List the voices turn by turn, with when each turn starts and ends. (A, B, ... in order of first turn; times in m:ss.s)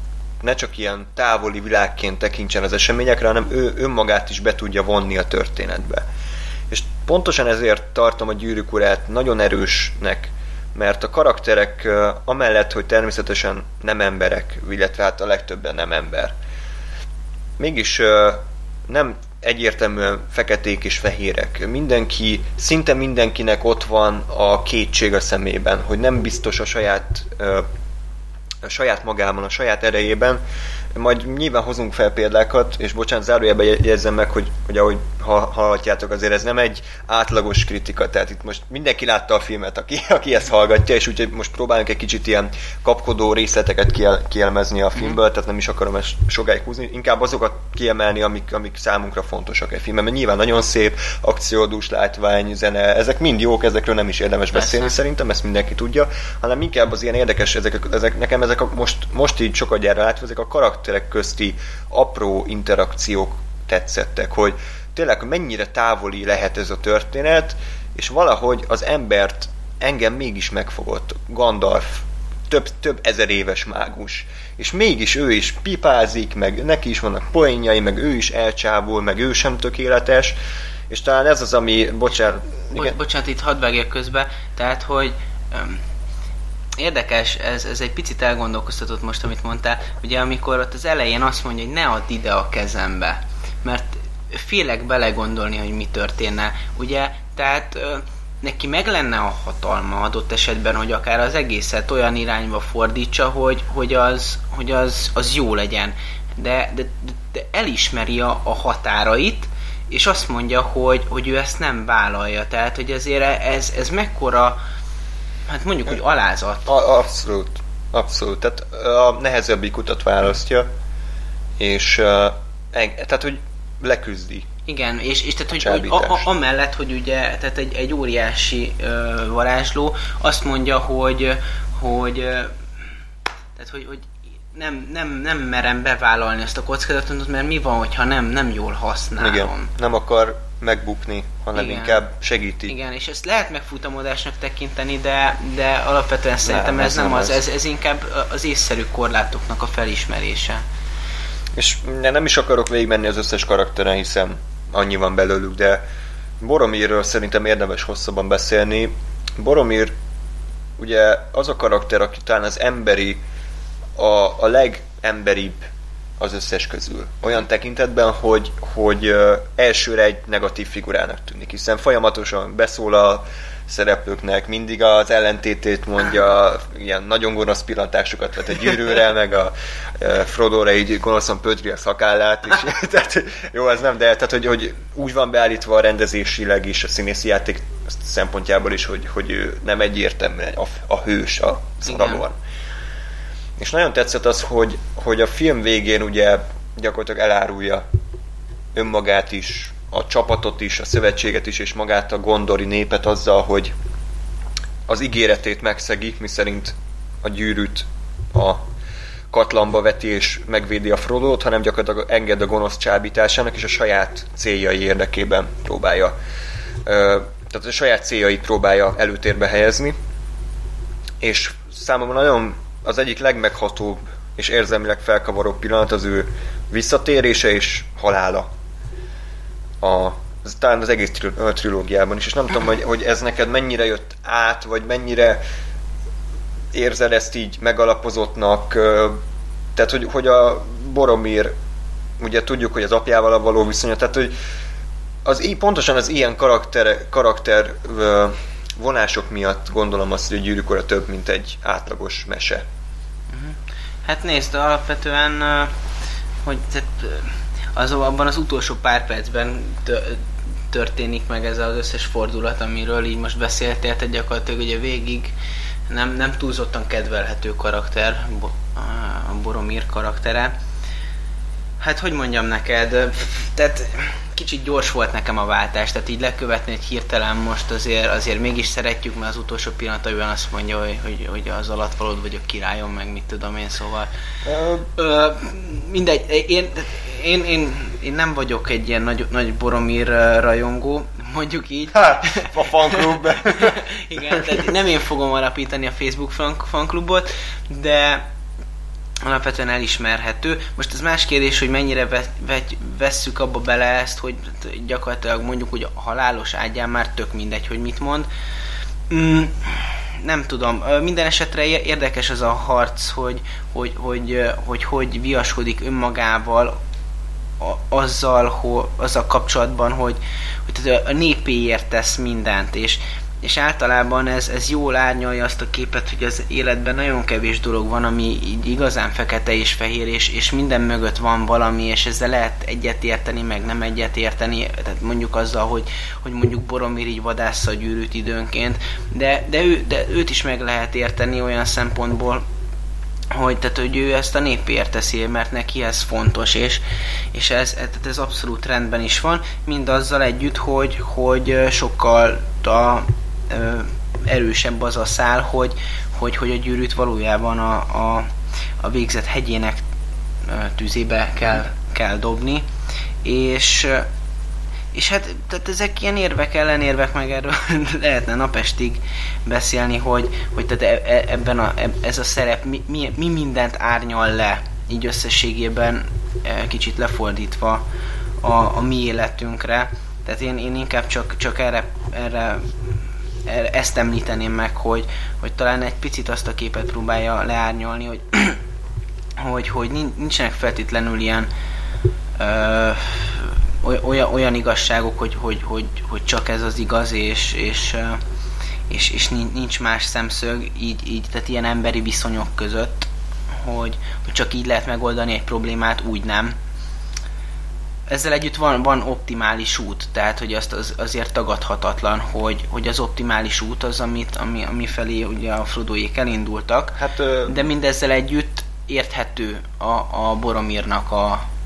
0:00.4-0:06.0 A
0:06.7-0:16.3 A
0:17.6-0:27.6 A
0:28.6-0:30.4 A
0:30.9-1:20.4 A
0:54.5-0:54.9 B
1:20.9-1:23.0 A
1:22.7-1:25.8 B
1:26.8-1:54.6 B
1:55.5-1:56.7 B
1:56.7-2:00.7 A
2:01.6-2:04.5 A
2:04.7-2:12.6 B
2:05.5-2:06.3 A
2:13.6-2:19.7 B
2:19.2-2:22.8 A
2:21.6-2:22.0 B
2:22.7-2:30.6 B
2:26.4-2:27.4 A
2:31.6-2:35.8 A
2:36.4-2:39.9 A
2:40.8-2:43.2 A
2:44.0-2:45.6 A
2:46.2-3:12.4 A
3:11.9-3:12.2 B
3:13.6-3:17.8 A
3:18.8-3:23.7 A
3:24.9-3:28.6 A
3:29.3-3:36.1 A
3:36.8-3:40.0 A
3:41.2-3:48.5 A
3:49.8-3:55.4 A
3:56.7-3:59.2 A
3:59.8-4:01.5 A
4:02.2-4:04.4 A
4:05.2-4:12.6 A
4:13.3-4:15.7 B
4:16.4-4:25.3 B
4:25.9-4:30.6 B
4:31.8-4:44.1 B
4:44.4-4:44.9 A
4:45.0-4:58.2 B
4:51.9-4:54.4 A
4:59.2-5:08.3 B
5:09.1-5:16.8 B
5:17.6-5:42.5 B
5:43.3-5:46.8 B
5:47.3-5:59.8 B
6:00.4-6:02.7 B
6:03.2-6:04.1 B
6:04.9-6:17.8 B
6:18.4-6:28.6 B
6:29.4-6:31.5 B
6:32.4-6:38.2 B
6:38.9-6:46.6 B
6:48.1-7:01.5 B
6:57.0-6:57.7 A